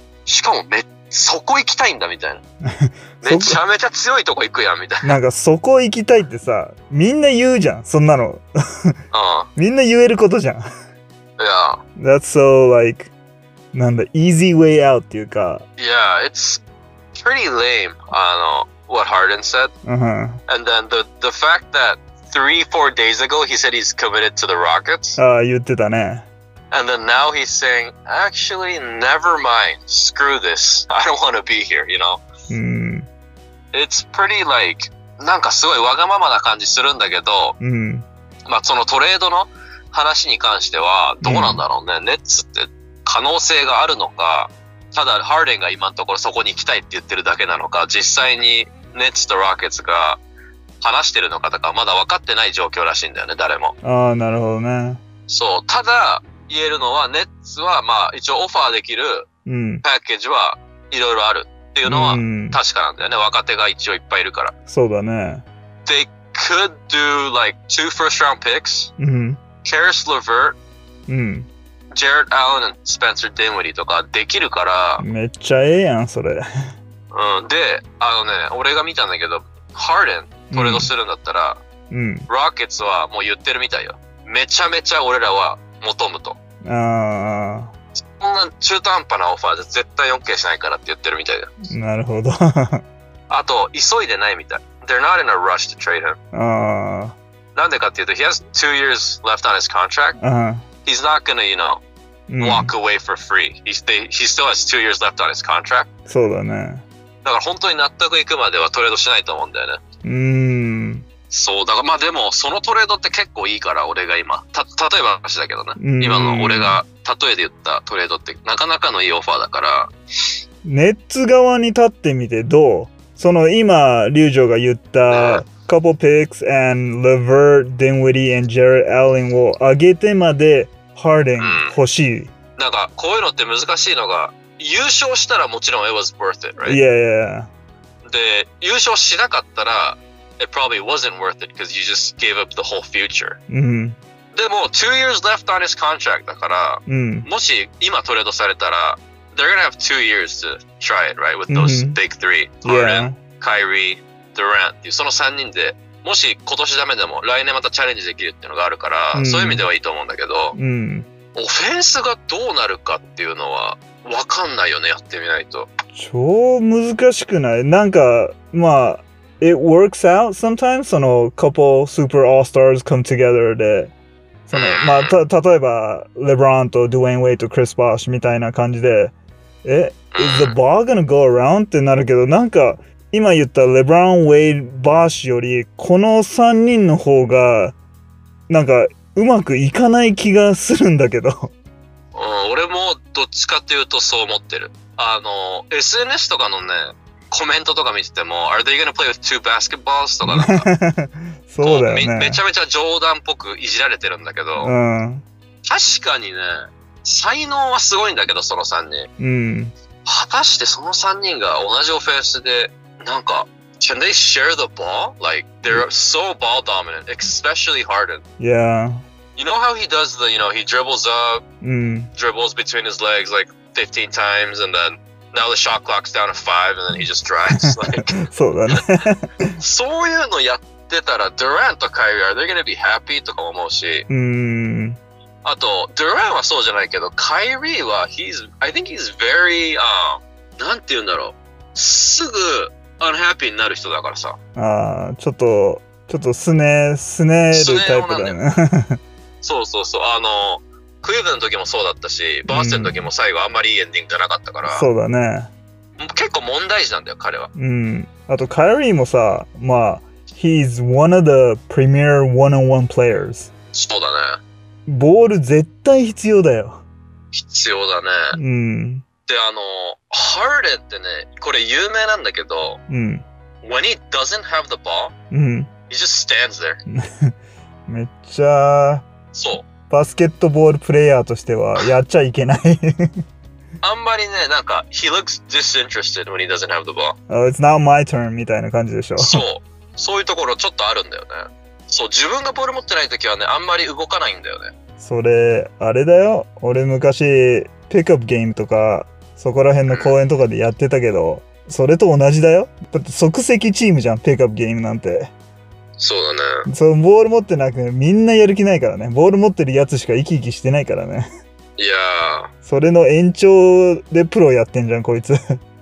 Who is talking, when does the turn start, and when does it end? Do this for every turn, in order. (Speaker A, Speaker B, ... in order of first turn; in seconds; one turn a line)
Speaker A: 0.3-2.4
Speaker B: 2.7-3.6
Speaker A: 3.2-5.2
Speaker B: 5.0-8.9
Speaker A: 9.1-9.5
Speaker B: 9.6-10.7
Speaker A: 11.4-11.8
Speaker B: 12.0-13.1
Speaker B: 13.7-15.7
Speaker A: 15.8-16.6
Speaker A: 17.1-19.7
Speaker B: 19.9-20.4
Speaker A: 20.5-25.2
Speaker B: 25.2-26.3
Speaker A: 26.7-32.2
Speaker B: 32.5-33.1
Speaker A: 33.7-37.6
Speaker B: 37.6-38.1
Speaker A: 38.5-50.2
Speaker B: 41.2-41.6
Speaker A: 50.8-53.8
Speaker B: 53.8-55.0
Speaker A: 55.3-59.3
Speaker B: 59.5-59.8
Speaker A: 59.8-64.5
Speaker B: 61.9-62.6
Speaker B: 64.7-65.5
Speaker A: 65.9-68.9
Speaker B: 69.0-69.4
Speaker A: 69.6-70.6
Speaker B: 71.1-71.5
Speaker A: 71.9-75.0
Speaker B: 75.0-76.7
Speaker A: 77.1-81.6
Speaker B: 80.5-80.9
Speaker B: 81.9-82.3
Speaker A: 82.3-86.4
Speaker B: 86.7-87.7
Speaker A: 88.2-91.5
Speaker B: 91.7-92.8
Speaker A: 93.3-96.2
Speaker B: 96.3-97.2
Speaker A: 97.5-100.2
Speaker B: 100.2-100.7
Speaker A: 100.9-101.8
Speaker B: 102.3-102.7
Speaker A: 102.4-105.9
Speaker B: 106.1-106.8
Speaker A: 107.2-109.8
Speaker B: 110.0-111.0
Speaker A: 111.3-119.9
Speaker B: 115.8-116.8
Speaker B: 120.6-132.3
Speaker A: 125.1-125.5
Speaker A: 131.4-131.8
Speaker A: 132.6-136.8
Speaker B: 136.6-137.5
Speaker A: 138.1-143.4
Speaker B: 143.5-144.0
Speaker A: 144.3-160.6
Speaker B: 146.9-147.3
Speaker B: 151.5-152.0
Speaker B: 152.6-153.2
Speaker B: 159.1-159.7
Speaker B: 160.6-161.1
Speaker A: 161.3-165.7
Speaker B: 165.9-173.9
Speaker B: 174.5-187.8
Speaker A: 174.5-175.2
Speaker A: 180.1-180.6
Speaker B: 188.5-191.5
Speaker A: 192.1-200.7
Speaker B: 200.2-202.4
Speaker A: 201.6-204.7
Speaker B: 204.6-205.2
Speaker A: 205.7-209.1
Speaker B: 209.2-209.7
Speaker A: 210.1-218.2
Speaker B: 218.4-219.0
Speaker A: 219.4-221.4
Speaker B: 221.6-222.1
Speaker A: 222.2-228.1
Speaker B: 227.5-229.6
Speaker A: 229.6-234.1
Speaker B: 234.1-235.0
Speaker A: 235.4-244.4
Speaker B: 244.6-249.0
Speaker A: 247.5-248.4
Speaker A: 249.4-254.9
Speaker B: 252.5-253.1
Speaker B: 254.7-255.5
Speaker A: 256.0-257.5
Speaker B: 257.6-263.5
Speaker A: 263.7-264.4
Speaker B: 264.9-266.8
Speaker A: 267.3-268.4
Speaker B: 268.3-269.0
Speaker A: 269.3-272.8
Speaker B: 272.9-273.2
Speaker A: 273.6-275.1
Speaker B: 275.3-275.7
Speaker A: 275.9-276.8
Speaker B: 277.1-277.3
Speaker B: 277.9-279.1
Speaker A: 279.3-279.7
Speaker B: 279.9-283.1
Speaker A: 283.8-287.2
Speaker B: 287.3-289.4
Speaker A: 289.2-294.7
Speaker B: 295.0-305.3
Speaker A: 299.9-300.2
Speaker A: 306.0-306.7
Speaker B: 306.7-311.3
Speaker A: 311.8-312.5
Speaker B: 312.6-315.6